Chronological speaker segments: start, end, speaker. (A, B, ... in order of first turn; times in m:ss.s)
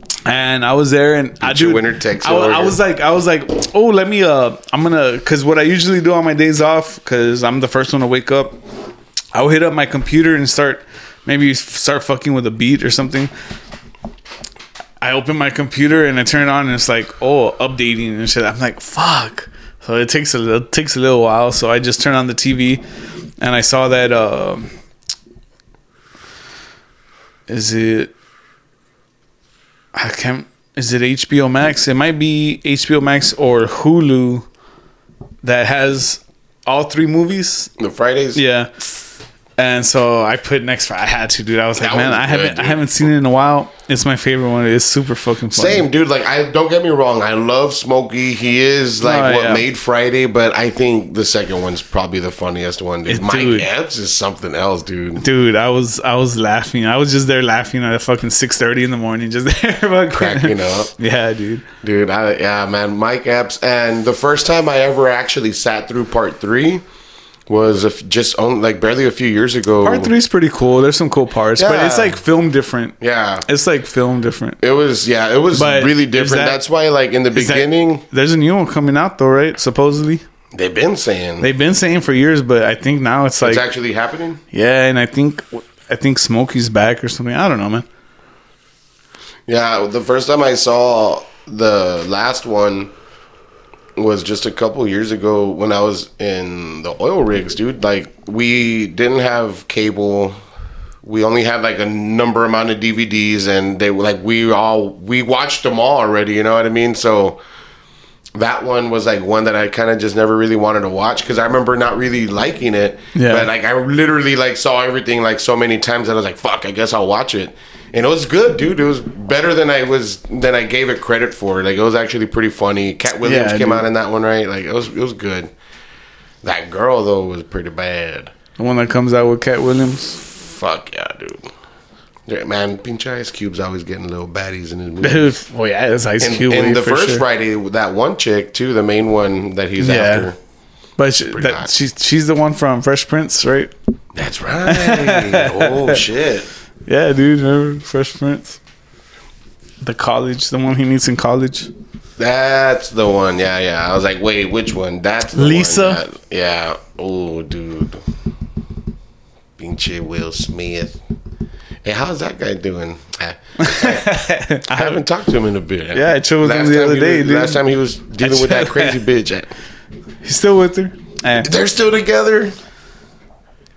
0:00.3-0:08.6 A
0:01.4-0:02.8 B
0:09.3-0:13.3 A
0:15.0-0:22.8 A
0:23.4-0:24.7 A
0:27.5-0:28.1 A
0:30.0-0:34.5 A
0:35.4-0:37.7 A
0:37.8-0:38.4 B
0:38.4-0:38.9 A
0:39.6-0:45.9 A
0:41.8-0:43.1 B
0:45.5-0:55.2 B
0:49.0-0:49.6 A
0:53.1-0:53.7 A
0:55.2-1:01.7 A
1:00.1-1:00.9 B
1:01.8-1:06.8 B
1:07.5-1:10.1 B
1:09.8-1:14.6 A
1:11.6-1:12.2 B
1:13.0-1:13.5 B
1:14.6-1:18.0 B
1:15.5-1:16.6 A
1:17.3-1:20.2 A
1:20.5-1:21.5 B
1:21.4-1:23.7 A
1:23.4-1:24.4 B
1:24.5-1:27.8 A
1:29.5-1:32.9 B
1:34.0-1:40.4 B
1:41.0-1:47.4 B
1:48.4-2:05.5 B
1:53.1-1:53.5 A
2:03.2-2:03.9 A
2:06.4-2:08.3 B
2:08.6-2:10.2 A
2:10.2-2:11.5 B
2:12.3-2:15.4 B
2:15.0-2:17.2 A
2:16.2-2:20.4 B
2:19.8-2:20.3 A
2:21.0-2:23.7 A
2:21.2-2:21.7 B
2:24.2-2:26.5 B
2:24.7-2:26.0 A
2:26.9-2:28.6 A
2:29.8-2:31.7 A
2:32.2-2:38.0 B
2:35.3-2:36.0 A
2:39.6-2:41.0 B
2:41.8-2:49.5 B
2:43.6-2:45.0 A
2:45.9-2:47.6 A
2:48.2-2:49.0 A
2:50.2-2:51.5 A
2:51.4-2:52.6 B